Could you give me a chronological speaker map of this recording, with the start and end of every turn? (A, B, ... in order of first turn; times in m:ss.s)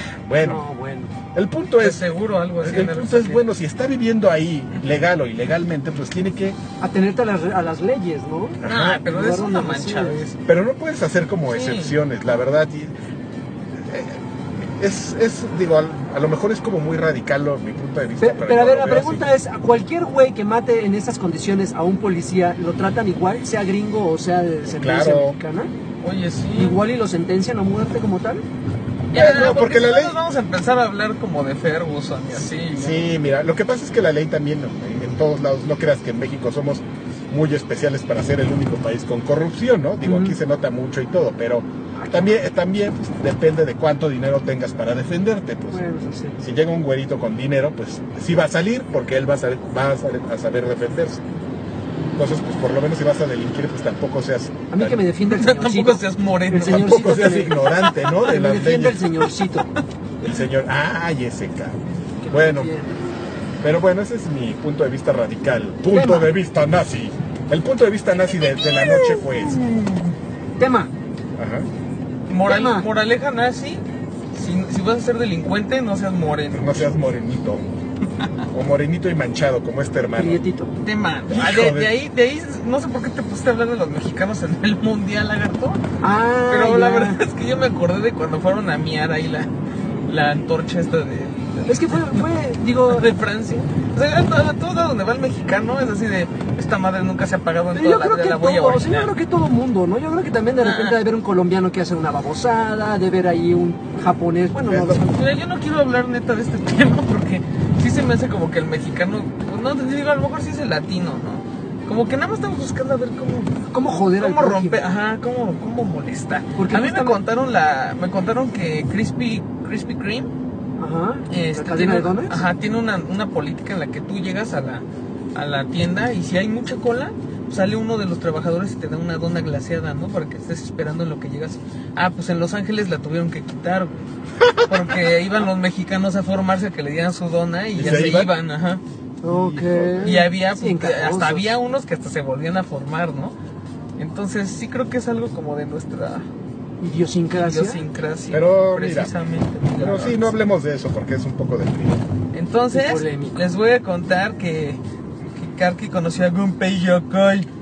0:00.2-0:00.6 A
0:00.4-0:01.1 B
0:01.3-0:06.6 A
0:01.8-0:03.4 C
0:06.8-0:10.2 B
0:08.6-0:09.0 A
0:08.6-0:10.4 C
0:10.4-0:12.9 A
0:11.5-0:12.0 C
0:13.7-0:19.3 A
0:18.2-0:25.7 B
0:24.6-0:25.4 A
0:26.0-0:26.8 C
0:26.5-0:28.4 B
0:29.1-0:33.1 C
0:29.1-0:30.2 A
0:32.7-0:45.8 A
0:40.0-0:40.4 B
0:42.0-0:42.2 B
0:45.7-0:46.4 B
0:46.4-0:51.2 A
0:52.2-0:55.0 A
0:54.7-0:57.7 B
0:55.2-0:57.3 C
0:56.5-0:59.1 A
0:58.2-0:59.7 B
0:59.3-1:00.4 C
1:00.2-1:02.7 A
1:02.2-1:03.1 B
1:03.6-1:09.6 A
1:05.9-1:06.3 B
1:08.4-1:10.1 C
1:10.6-1:10.9 B
1:11.4-1:11.7 A
1:12.3-1:16.9 C
1:12.4-1:12.9 B
1:16.5-1:17.6 A
1:18.2-1:18.4 C
1:18.5-1:20.4 A
1:20.2-1:20.7 B
1:20.8-1:25.8 C
1:21.3-1:21.9 A
1:26.0-1:27.2 B
1:26.5-1:29.5 C
1:30.1-1:32.2 C
1:31.7-1:33.1 B
1:32.9-1:39.1 C
1:37.7-1:45.2 B
1:40.6-1:41.0 C
1:44.7-1:45.0 A
1:45.1-1:53.5 C
1:53.7-1:54.8 B
1:54.2-2:00.3 C
1:56.6-1:57.2 B
2:00.8-2:02.4 B
2:01.3-2:14.1 C
2:14.4-2:14.8 A
2:14.6-2:18.8 C
2:17.7-2:18.4 A
2:19.2-2:21.5 B
2:19.2-2:20.3 A
2:20.0-2:23.3 C
2:24.0-2:26.2 C
2:26.8-2:27.8 B
2:27.3-2:30.3 C
2:28.3-2:29.1 A
2:29.8-2:32.0 A
2:32.3-2:34.8 C
2:32.7-2:33.4 B
2:35.4-2:37.5 C